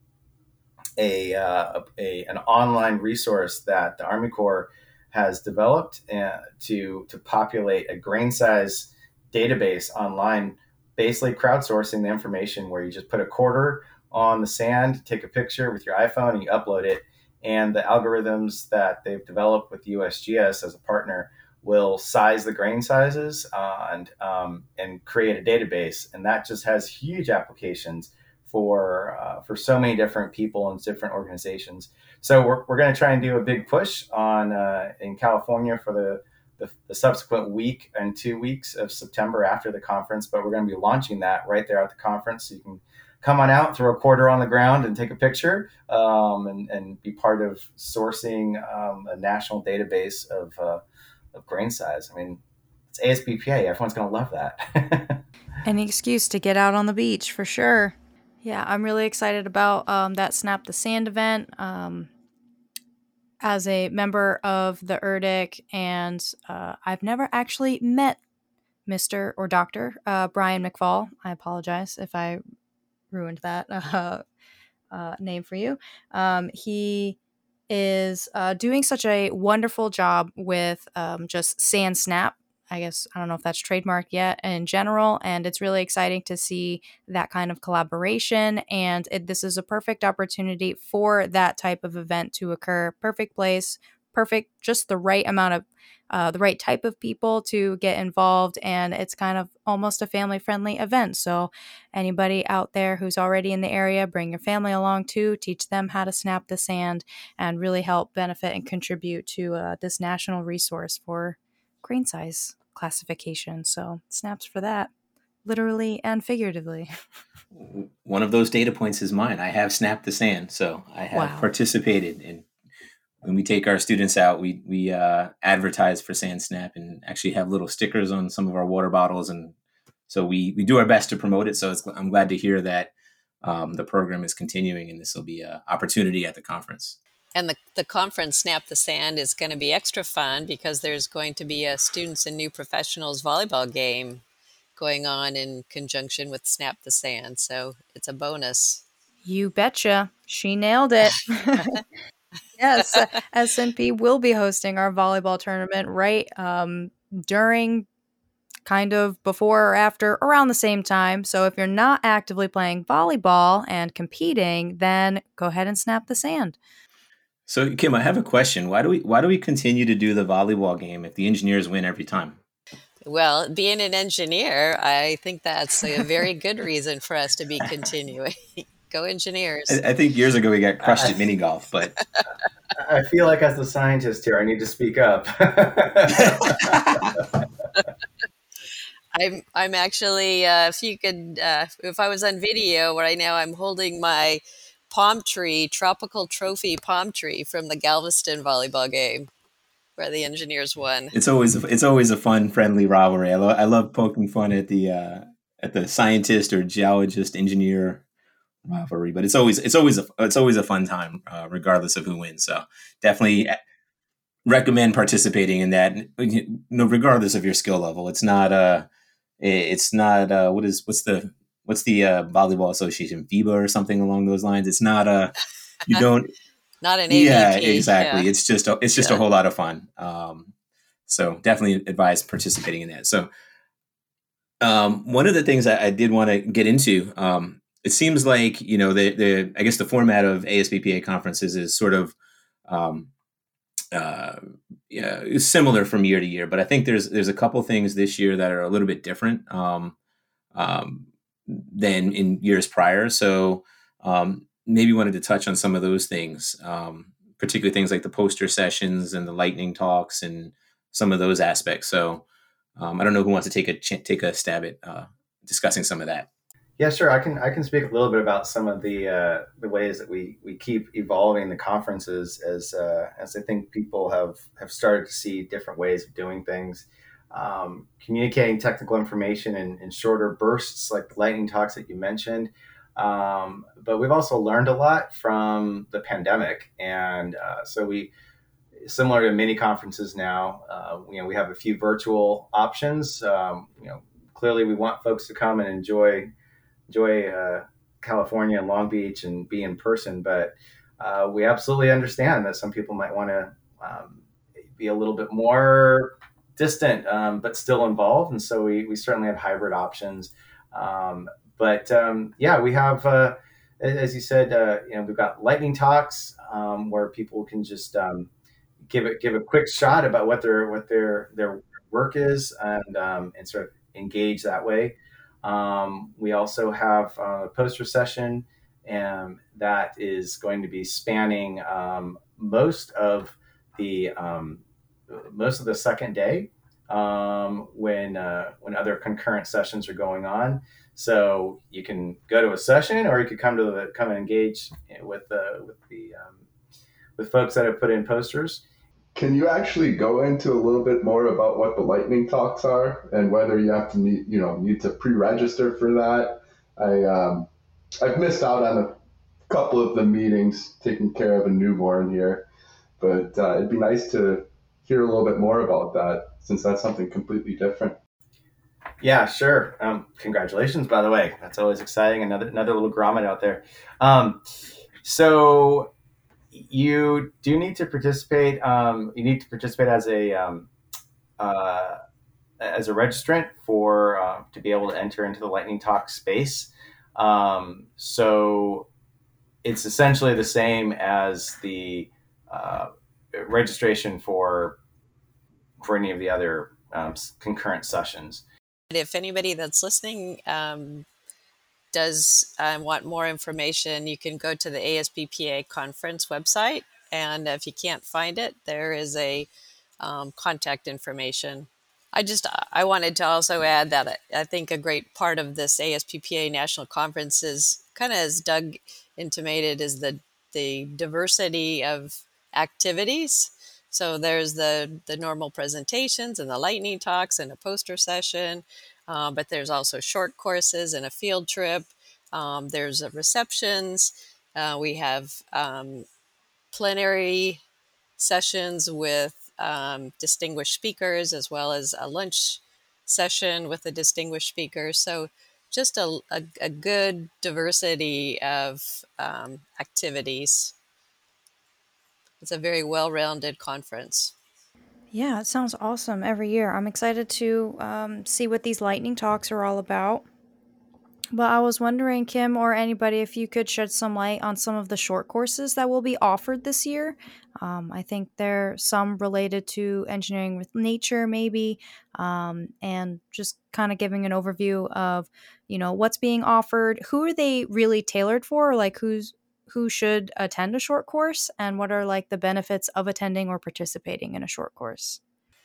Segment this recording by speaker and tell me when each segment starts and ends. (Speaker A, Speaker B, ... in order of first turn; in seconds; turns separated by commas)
Speaker A: 1.0-50.8, Speaker A: 51.3-52.4, Speaker A: 52.9-55.2, Speaker B: 55.6-62.1, Speaker B: 63.4-68.2, Speaker B: 68.9-72.4, Speaker B: 73.1-74.2, Speaker B: 74.9-77.2, Speaker B: 77.7-114.9, Speaker B: 115.5-116.9, Speaker C: 117.5-122.5, Speaker B: 121.1-121.5, Speaker C: 123.2-129.5, Speaker C: 130.1-132.9, Speaker C: 133.4-137.0, Speaker D: 137.3-144.2, Speaker D: 144.8-148.8, Speaker B: 149.2-151.8, Speaker B: 152.6-157.8, Speaker B: 158.6-166.6, Speaker C: 167.5-172.4, Speaker D: 173.0-179.8, Speaker C: 179.7-181.9, Speaker D: 182.0-182.2, Speaker A: 182.7-186.8, Speaker C: 186.1-187.2, Speaker D: 189.1-199.3, Speaker D: 200.0-201.1, Speaker C: 201.1-208.0, Speaker C: 208.7-213.6, Speaker C: 214.4-218.9, Speaker C: 219.4-226.3, Speaker D: 226.8-228.3, Speaker C: 227.1-230.5, Speaker C: 231.1-233.3, Speaker C: 234.6-242.1, Speaker C: 242.7-243.1, Speaker C: 243.9-249.9, Speaker C: 250.5-262.2, Speaker C: 262.8-266.2, Speaker A: 266.8-288.1, Speaker A: 288.8-296.3, Speaker A: 296.9-304.2, Speaker A: 304.8-318.3, Speaker A: 318.9-346.4, Speaker A: 347.2-348.6, Speaker E: 349.1-357.5, Speaker E: 358.0-358.9, Speaker E: 359.5-362.5, Speaker E: 363.0-368.0, Speaker A: 369.0-374.4, Speaker A: 375.0-375.9, Speaker A: 376.5-380.7, Speaker A: 381.4-382.0, Speaker A: 382.6-388.9, Speaker A: 389.6-394.8, Speaker A: 395.8-398.4, Speaker D: 398.9-401.1, Speaker D: 401.9-409.5, Speaker D: 410.0-436.1, Speaker D: 436.7-437.6, Speaker D: 438.2-450.7, Speaker D: 452.4-454.3, Speaker B: 455.1-460.2, Speaker B: 461.3-485.2